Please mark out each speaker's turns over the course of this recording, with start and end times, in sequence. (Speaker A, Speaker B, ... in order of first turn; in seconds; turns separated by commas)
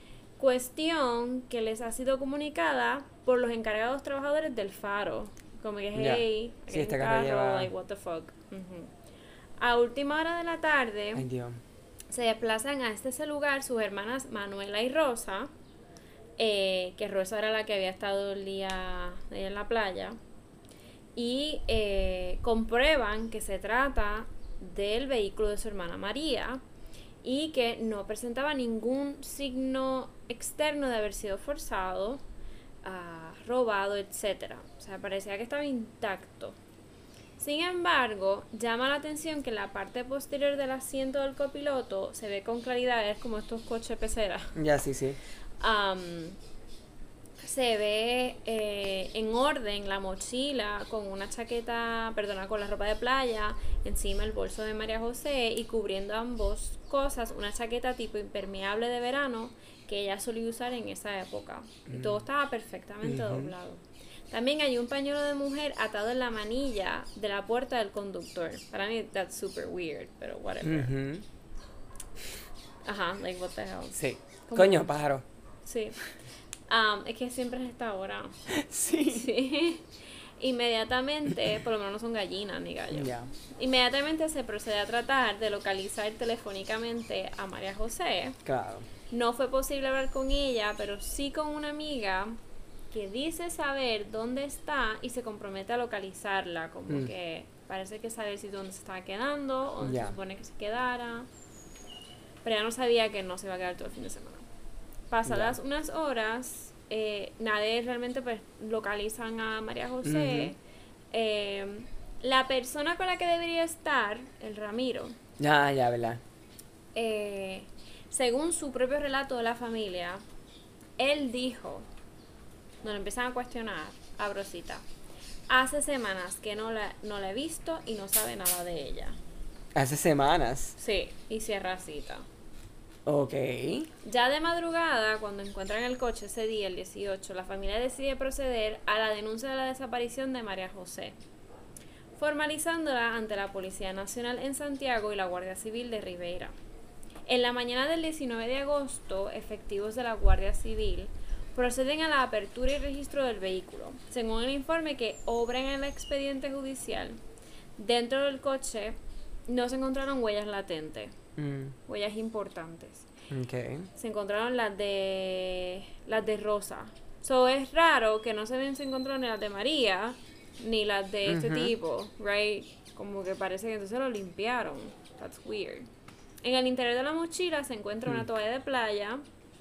Speaker A: 0.4-8.9, Speaker B: 5.9-7.7, Speaker A: 9.6-11.2, Speaker B: 11.1-11.6, Speaker A: 12.1-15.5, Speaker A: 16.4-20.2, Speaker A: 21.1-26.6, Speaker A: 27.2-32.2, Speaker A: 32.8-36.6, Speaker A: 37.4-44.6, Speaker B: 44.5-45.2, Speaker A: 45.6-46.4, Speaker A: 47.4-70.9, Speaker B: 61.9-62.2, Speaker B: 63.0-63.5, Speaker B: 70.6-71.2, Speaker A: 72.8-74.0, Speaker B: 73.9-75.2, Speaker A: 74.5-74.9, Speaker A: 75.6-76.1, Speaker A: 76.7-78.4, Speaker B: 78.5-79.3, Speaker A: 79.1-88.4, Speaker B: 82.9-83.3, Speaker B: 88.4-88.9, Speaker A: 89.1-92.4, Speaker A: 92.9-101.3, Speaker B: 99.8-100.1, Speaker A: 102.4-104.5, Speaker A: 105.1-110.6, Speaker B: 105.2-105.6, Speaker B: 110.0-110.5, Speaker A: 111.1-115.2, Speaker B: 115.4-116.2, Speaker A: 116.9-120.2, Speaker A: 121.0-121.9, Speaker A: 122.8-124.8, Speaker A: 125.5-129.2, Speaker B: 129.8-130.8, Speaker A: 130.8-132.3, Speaker B: 133.1-133.9, Speaker A: 134.0-141.2, Speaker A: 142.2-146.5, Speaker A: 147.3-157.2, Speaker A: 157.8-161.2, Speaker B: 161.4-161.8, Speaker A: 161.8-163.1, Speaker B: 163.3-163.9, Speaker A: 163.9-175.9, Speaker B: 171.2-171.7, Speaker A: 176.4-179.2